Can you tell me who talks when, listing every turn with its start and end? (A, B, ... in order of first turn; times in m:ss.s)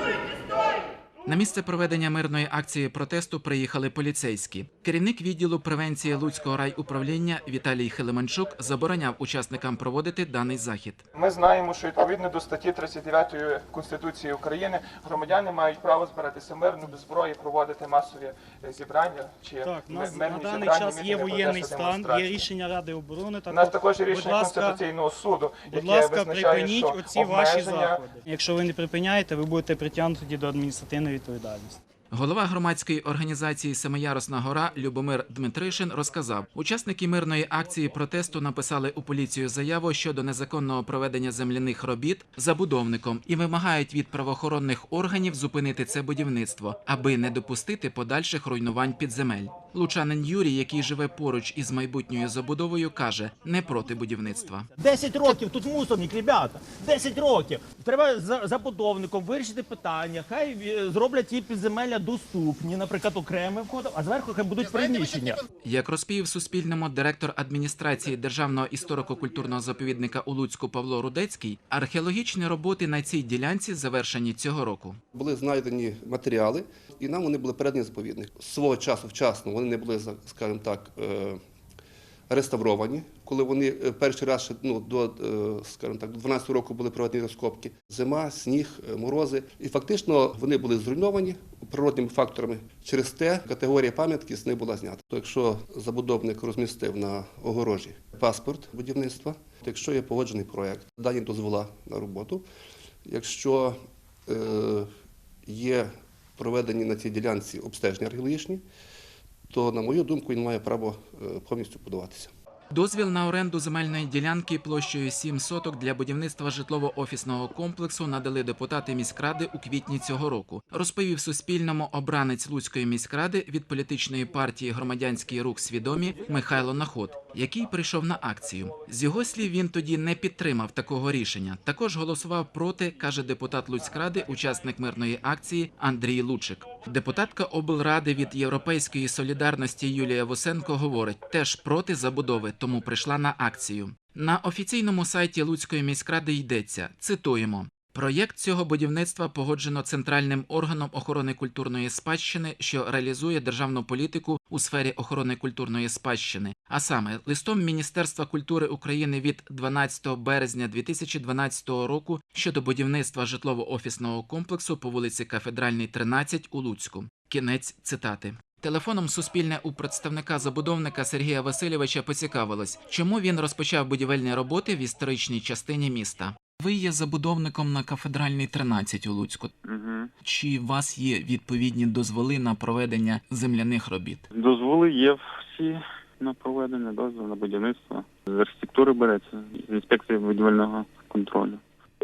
0:01.2-0:11.0 A
0:11.1-0:22.4 B
0:19.6-0:24.8 C
0:23.5-0:28.0 B
0:25.7-0:31.8 C
0:32.1-0:54.7 A
0:54.7-1:05.4 D
1:05.6-1:15.0 A
1:15.1-1:21.4 E
1:22.3-1:42.4 E
1:43.0-1:44.9 E
1:45.4-1:48.6 E
1:49.5-1:52.3 E
1:52.7-2:59.5 A
2:59.6-3:00.1 F
3:00.2-3:04.3 A
3:04.3-3:11.6 F